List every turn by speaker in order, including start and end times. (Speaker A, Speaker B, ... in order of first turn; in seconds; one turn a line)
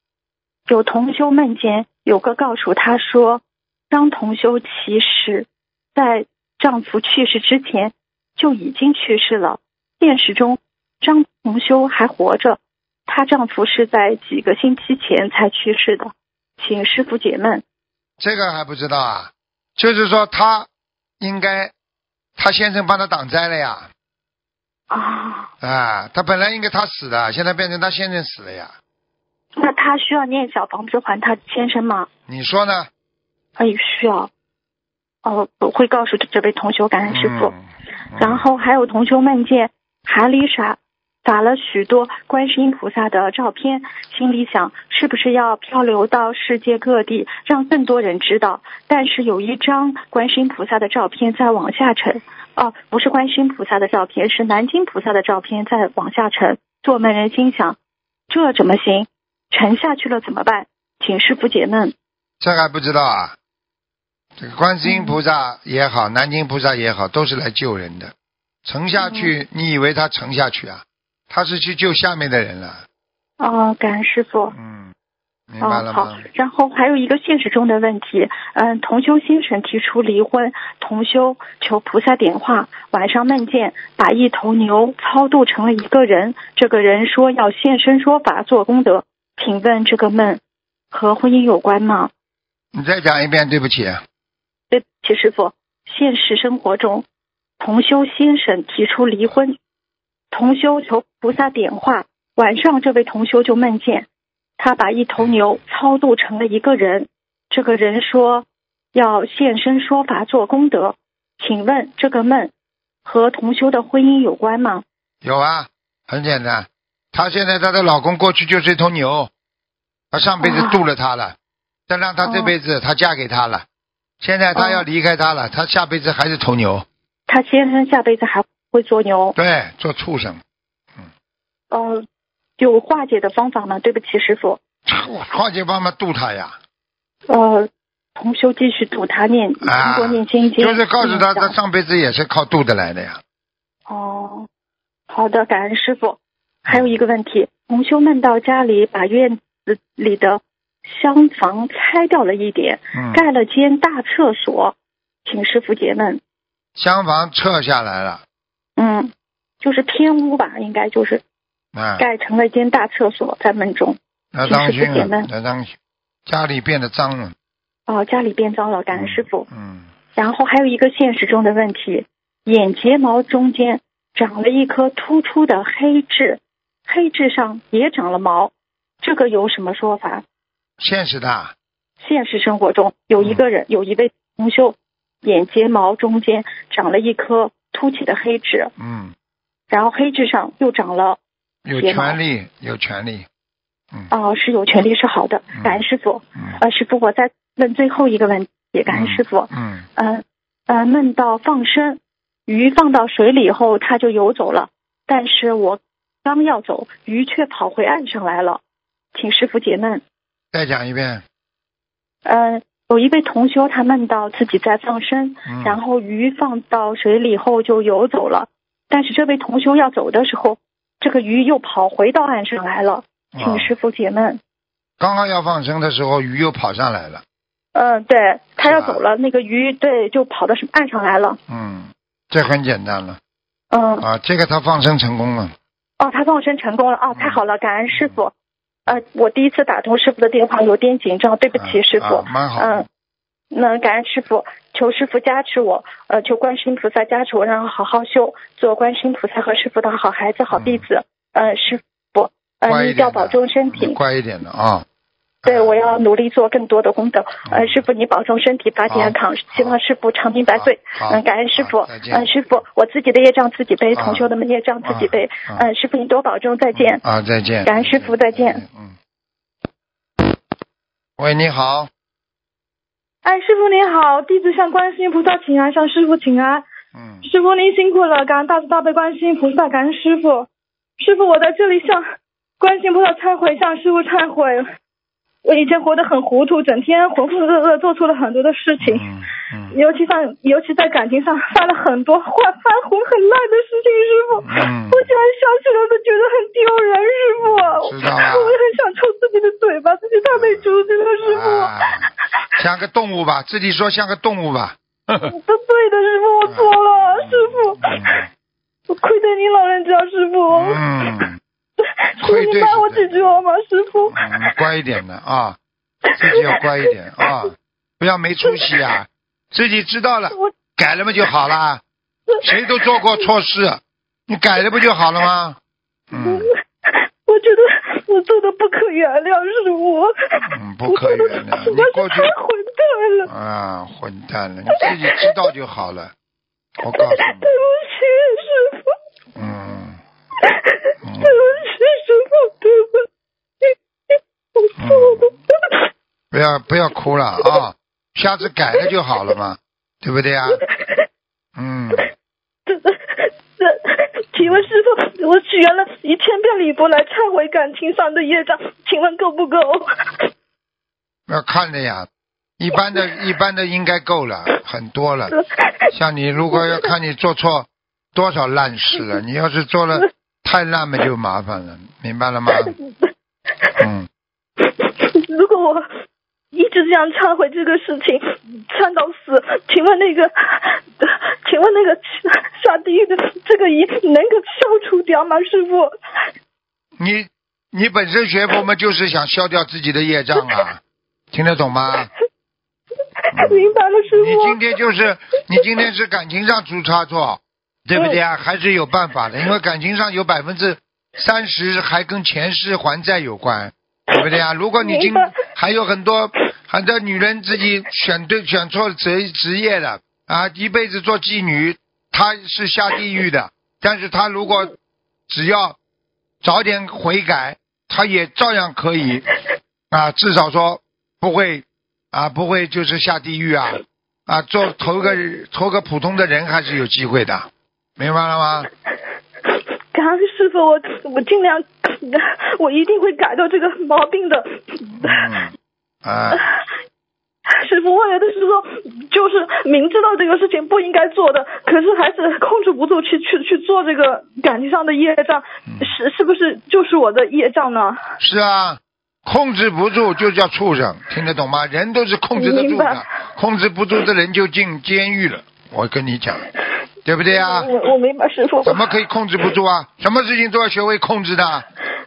Speaker A: 0.7-17.6
Speaker B: 18.2-20.7
Speaker B: 21.2-21.7
Speaker B: 22.4-23.9
Speaker A: 24.9-25.5
Speaker B: 25.6-28.7
Speaker A: 29.6-32.1
Speaker B: 32.3-32.9
Speaker A: 33.6-34.3
Speaker A: 35.2-37.5
Speaker B: 37.1-38.4
Speaker A: 38.2-57.8
Speaker A: 58.3-61.9
Speaker B: 62.4-63.4
Speaker B: 64.4-68.1
Speaker A: 64.8-65.2
Speaker B: 68.6-72.8
Speaker A: 69.0-69.3
Speaker A: 73.4-74.5
Speaker B: 74.5-74.9
Speaker B: 75.5-76.2
Speaker A: 75.6-90.4
Speaker A: 90.9-92.1
Speaker B: 92.7-94.0
Speaker A: 94.7-97.0
Speaker A: 97.6-99.5
Speaker A: 100.3-104.1
Speaker A: 104.6-112.5
Speaker A: 113.0-114.8
Speaker B: 115.2-119.3
Speaker B: 120.1-121.3
Speaker A: 120.4-120.8
Speaker B: 121.9-123.6
Speaker A: 122.2-122.5
Speaker B: 124.2-126.8
Speaker A: 124.5-124.8
Speaker A: 127.3-129.3
Speaker B: 129.3-130.4
Speaker A: 131.7-132.0
Speaker A: 132.6-134.6
Speaker B: 134.8-136.6
Speaker A: 137.3-141.5
Speaker B: 139.6-143.2
Speaker A: 143.9-144.5
Speaker A: 145.1-154.7
Speaker B: 146.7-146.9
Speaker B: 152.9-153.2
Speaker A: 155.2-156.2
Speaker B: 156.8-158.2
Speaker A: 158.8-161.2
Speaker B: 161.7-162.0
Speaker A: 162.0-165.3
Speaker B: 164.3-165.7
Speaker B: 166.3-167.3
Speaker A: 167.9-169.5
Speaker B: 168.9-169.9
Speaker A: 170.2-180.2
Speaker B: 180.8-181.5
Speaker A: 182.0-188.7
Speaker B: 188.8-189.1
Speaker A: 189.7-191.2
Speaker B: 191.6-193.2
Speaker A: 191.8-192.2
Speaker A: 194.1-208.6
Speaker B: 195.5-195.8
Speaker B: 198.9-199.8
Speaker A: 209.1-210.0
Speaker B: 210.5-211.2
Speaker A: 212.2-224.4
Speaker B: 215.5-215.8
Speaker B: 223.3-223.7
Speaker B: 225.0-227.2
Speaker A: 227.7-231.4
Speaker B: 228.6-229.0
Speaker B: 231.5-233.2
Speaker A: 233.7-234.0
Speaker B: 234.0-235.5
Speaker A: 236.0-238.3
Speaker B: 237.1-237.4
Speaker A: 238.9-242.8
Speaker B: 241.6-242.8
Speaker A: 243.5-254.0
Speaker B: 250.5-250.8
Speaker B: 252.7-254.8
Speaker B: 255.4-255.8
Speaker A: 255.4-267.0
Speaker B: 257.4-257.8
Speaker B: 258.9-259.8
Speaker B: 260.5-262.3
Speaker B: 263.9-264.3
Speaker B: 264.8-265.6
Speaker B: 266.7-268.9
Speaker A: 267.6-268.6
Speaker B: 271.2-271.9
Speaker C: 273.2-276.6
Speaker B: 276.9-277.2
Speaker C: 277.2-280.5
Speaker C: 281.0-282.0
Speaker C: 282.6-284.6
Speaker C: 285.4-289.1
Speaker B: 288.8-289.7
Speaker C: 289.7-302.1
Speaker B: 294.4-295.1
Speaker B: 297.4-298.6
Speaker B: 300.3-300.7
Speaker B: 301.2-305.2
Speaker C: 305.2-308.0
Speaker B: 306.4-308.3
Speaker C: 308.9-311.3
Speaker B: 310.5-311.4
Speaker C: 311.8-314.6
Speaker B: 312.2-313.4
Speaker B: 314.1-315.6
Speaker C: 316.1-317.4
Speaker B: 316.2-321.8
Speaker C: 318.4-318.8
Speaker C: 322.3-323.3
Speaker B: 322.4-325.6
Speaker B: 326.1-326.5
Speaker C: 326.1-333.3
Speaker B: 330.5-332.3
Speaker B: 333.2-336.1
Speaker C: 334.7-335.3
Speaker B: 336.8-337.5
Speaker C: 336.9-338.9
Speaker B: 339.4-340.0
Speaker C: 340.4-343.0
Speaker B: 341.0-341.6
Speaker C: 343.6-345.8
Speaker B: 344.8-345.3
Speaker B: 346.3-350.6
Speaker C: 350.5-351.1
Speaker B: 351.6-352.1
Speaker C: 352.7-360.3
Speaker B: 354.4-354.7
Speaker B: 361.3-362.1
Speaker B: 362.6-365.3
Speaker C: 365.3-365.9
Speaker B: 365.9-372.7
Speaker C: 366.5-366.9
Speaker C: 372.5-373.8
Speaker B: 373.8-374.1
Speaker C: 374.6-375.9
Speaker C: 376.5-385.9
Speaker B: 387.0-390.8
Speaker B: 391.3-392.1
Speaker C: 393.2-394.8
Speaker B: 393.4-414.7
Speaker C: 404.8-405.4
Speaker B: 415.3-415.8
Speaker B: 416.4-419.3
Speaker B: 419.9-428.7
Speaker C: 429.4-435.3
Speaker B: 435.0-435.5
Speaker B: 436.0-436.5
Speaker C: 436.3-436.6
Speaker C: 437.5-448.0
Speaker B: 445.6-445.9
Speaker B: 448.2-456.4
Speaker C: 452.3-453.2
Speaker B: 457.0-457.7
Speaker C: 457.3-459.5
Speaker B: 458.6-461.6